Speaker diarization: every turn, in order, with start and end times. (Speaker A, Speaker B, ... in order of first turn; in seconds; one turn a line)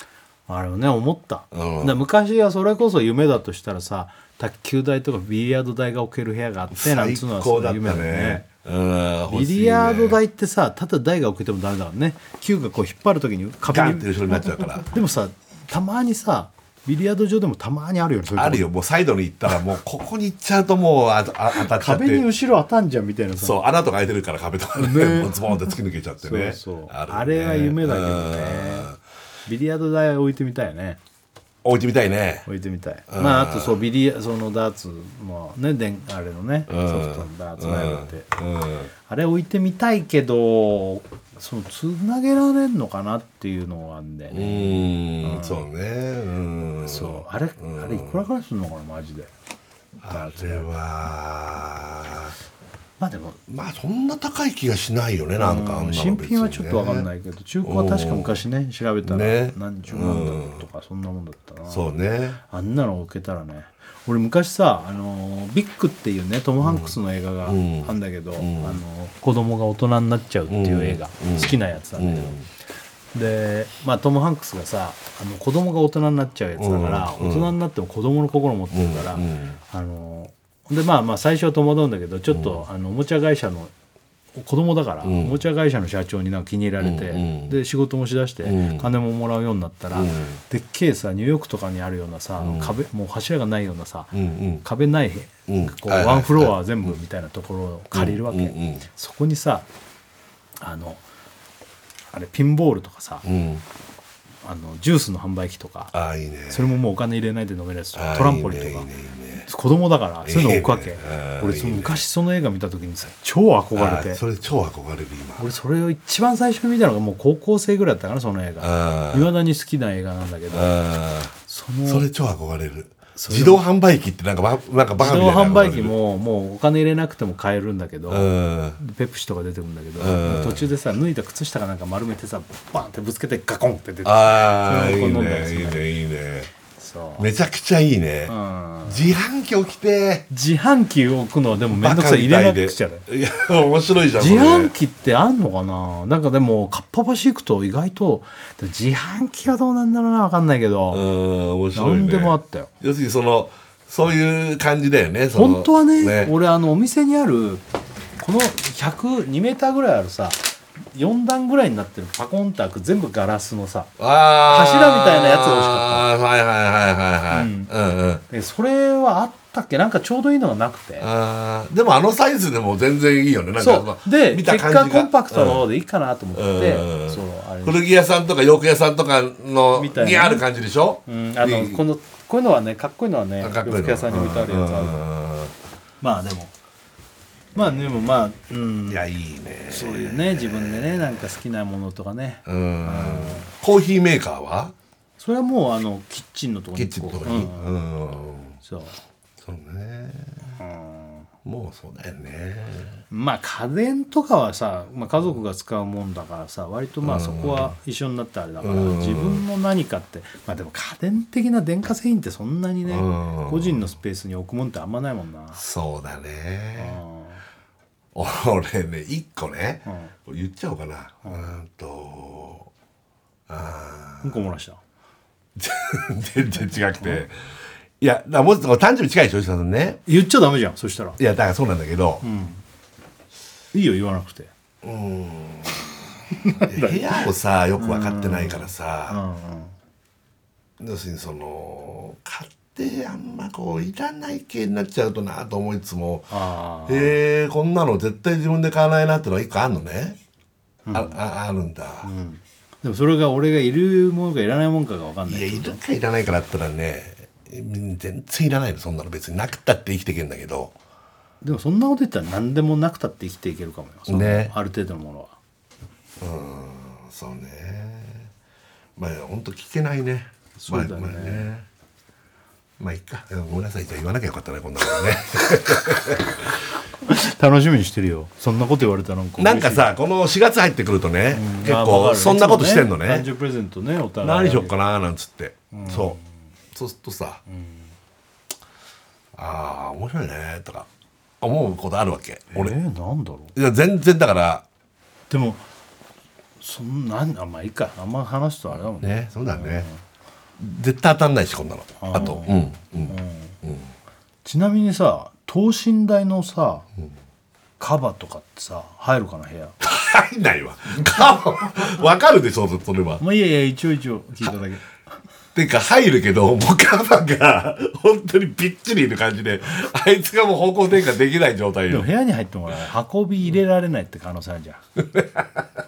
Speaker A: 0.5-8.4
Speaker B: 1.5-2.0
Speaker B: 6.7-10.2
Speaker A: 9.3-18.6
Speaker B: 13.7-14.9
Speaker B: 18.4-22.2
Speaker A: 21.6-23.6
Speaker B: 23.4-29.0
Speaker A: 24.8-25.6
Speaker A: 26.2-28.9
Speaker A: 29.5-31.0
Speaker B: 31.6-32.5
Speaker A: 32.5-38.3
Speaker B: 33.1-33.8
Speaker B: 36.7-38.9
Speaker A: 39.1-45.7
Speaker B: 44.3-48.2
Speaker A: 46.8-49.3
Speaker B: 50.0-52.4
Speaker A: 50.1-50.7
Speaker A: 53.0-53.4
Speaker B: 53.5-57.1
Speaker A: 55.4-61.9
Speaker B: 57.6-58.4
Speaker B: 59.0-60.7
Speaker B: 61.7-62.4
Speaker A: 62.5-72.4
Speaker B: 66.6-68.8
Speaker B: 70.5-72.5
Speaker A: 73.1-83.7
Speaker B: 76.6-77.5
Speaker B: 78.7-79.6
Speaker B: 82.3-82.6
Speaker A: 84.3-94.1
Speaker B: 85.0-85.4
Speaker B: 86.8-87.6
Speaker B: 88.4-88.9
Speaker B: 89.9-90.4
Speaker B: 92.4-92.8
Speaker B: 94.1-94.6
Speaker A: 94.6-99.7
Speaker B: 95.5-97.0
Speaker B: 97.9-98.9
Speaker A: 100.6-101.0
Speaker A: 102.1-103.2
Speaker B: 103.2-103.6
Speaker A: 104.4-105.9
Speaker B: 105.9-106.8
Speaker A: 106.5-108.9
Speaker B: 108.0-109.5
Speaker A: 109.5-114.2
Speaker B: 110.2-112.0
Speaker B: 113.8-115.5
Speaker A: 115.4-122.1
Speaker B: 118.6-119.3
Speaker B: 120.5-121.3
Speaker B: 121.9-126.0
Speaker A: 123.2-123.6
Speaker A: 125.0-135.9
Speaker B: 128.1-128.8
Speaker B: 130.0-130.7
Speaker B: 134.0-136.5
Speaker A: 136.8-137.3
Speaker B: 137.2-140.3
Speaker A: 138.3-139.1
Speaker A: 140.3-143.1
Speaker B: 141.8-144.7
Speaker A: 144.2-151.0
Speaker B: 150.9-156.3
Speaker A: 151.7-152.7
Speaker A: 155.3-157.6
Speaker A: 158.2-163.9
Speaker B: 164.0-168.2
Speaker A: 164.5-166.1
Speaker A: 167.3-167.7
Speaker A: 168.3-171.1
Speaker B: 171.0-175.7
Speaker A: 173.6-177.8
Speaker B: 176.3-181.8
Speaker A: 179.8-180.5
Speaker A: 181.1-184.9
Speaker B: 183.4-185.6
Speaker A: 186.0-186.5
Speaker A: 187.6-189.0
Speaker B: 188.9-191.3
Speaker A: 189.7-193.5
Speaker B: 192.5-194.7
Speaker A: 195.2-197.7
Speaker B: 196.8-198.6
Speaker A: 198.6-199.0
Speaker B: 199.4-200.6
Speaker A: 200.6-201.3
Speaker B: 201.4-203.0
Speaker A: 203.1-215.6
Speaker B: 207.0-207.8
Speaker B: 208.6-209.4
Speaker B: 212.9-213.9
Speaker B: 215.6-217.0
Speaker A: 216.8-217.4
Speaker B: 218.1-222.7
Speaker A: 219.8-220.1
Speaker A: 221.2-221.5
Speaker B: 223.5-224.5
Speaker A: 224.2-224.8
Speaker B: 225.6-230.0
Speaker A: 230.1-231.2
Speaker B: 231.2-232.2
Speaker A: 232.2-232.6
Speaker A: 233.7-234.5
Speaker B: 234.8-239.2
Speaker A: 236.3-239.7
Speaker B: 240.8-250.2
Speaker A: 246.3-247.2
Speaker A: 250.9-251.2
Speaker B: 250.9-252.1
Speaker A: 252.0-255.8
Speaker B: 255.3-260.8
Speaker A: 261.4-265.4
Speaker B: 264.1-264.5
Speaker B: 266.2-268.3
Speaker B: 269.0-271.7
Speaker A: 270.6-271.5
Speaker B: 272.8-276.5
Speaker A: 277.1-279.9
Speaker B: 279.4-283.3
Speaker A: 281.3-284.7
Speaker B: 284.2-286.2
Speaker A: 285.7-286.2
Speaker B: 286.7-287.4
Speaker A: 287.5-287.9
Speaker B: 289.4-290.9
Speaker B: 291.4-292.8
Speaker A: 292.5-293.5
Speaker B: 293.6-294.7
Speaker A: 295.3-295.6
Speaker A: 296.6-300.0
Speaker B: 299.0-299.9
Speaker B: 300.6-303.9
Speaker A: 302.0-303.6
Speaker A: 304.4-306.9
Speaker A: 307.8-309.8
Speaker B: 309.8-313.2
Speaker A: 313.2-314.9
Speaker B: 315.6-322.1
Speaker A: 321.9-324.8
Speaker B: 325.0-325.7